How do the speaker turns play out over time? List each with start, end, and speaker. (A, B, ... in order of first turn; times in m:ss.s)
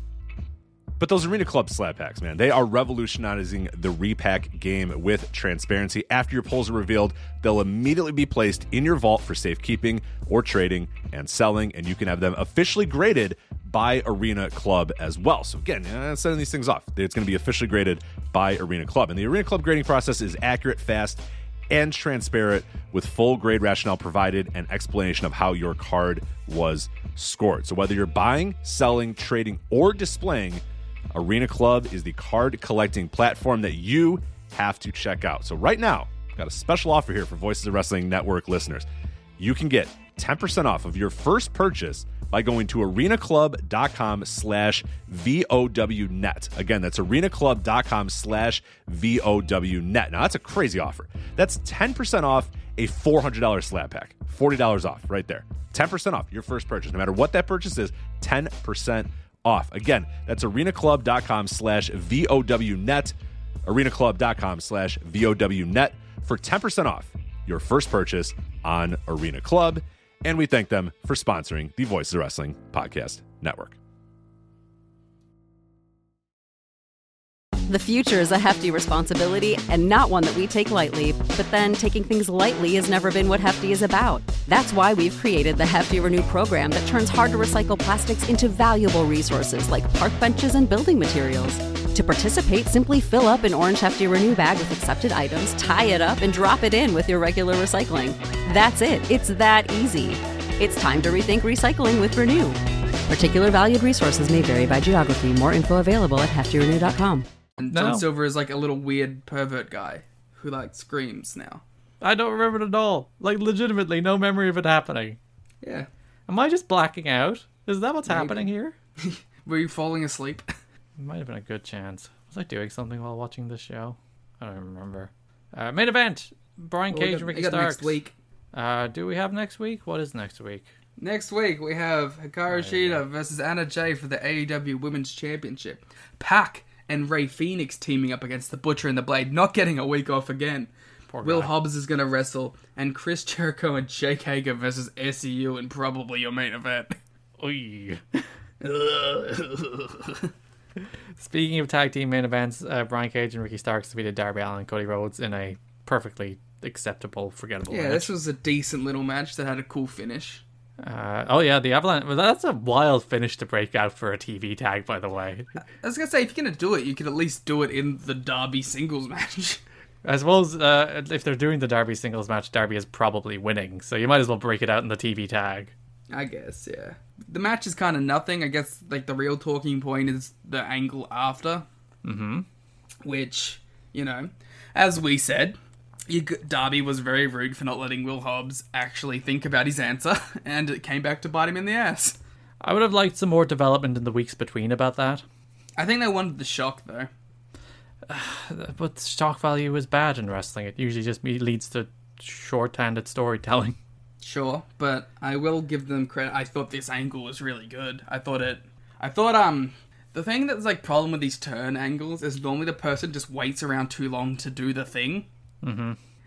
0:01.0-0:30.6 A
0:31.1-0:38.9 A
0:39.4-1:03.1 A
1:03.7-1:13.8 A
1:17.7-1:47.3 B
1:47.6-1:51.6 C
1:47.7-1:48.0 D
1:52.0-1:55.2 D
1:55.6-1:55.9 C
1:56.3-1:58.8 D
1:58.1-1:58.5 C
1:59.0-2:00.4 C
2:01.0-2:08.0 D
2:06.9-2:08.1 C
2:08.5-2:10.7 D
2:11.0-2:20.7 C
2:12.5-2:13.0 D
2:21.1-2:21.5 D
2:21.2-2:27.0 C
2:27.4-2:28.2 D
2:28.6-2:30.3 C
2:31.2-2:38.1 D
2:37.7-2:40.4 C
2:40.8-2:45.5 D
2:45.8-2:49.6 C
2:50.0-2:55.7 D
2:56.1-3:01.7 C
3:02.0-3:02.5 D
3:03.0-3:05.6 C
3:06.1-3:12.2 C
3:12.6-3:15.2 D
3:15.8-3:17.1 C
3:18.1-3:23.8 D
3:24.2-3:35.3 C
3:35.6-3:36.0 D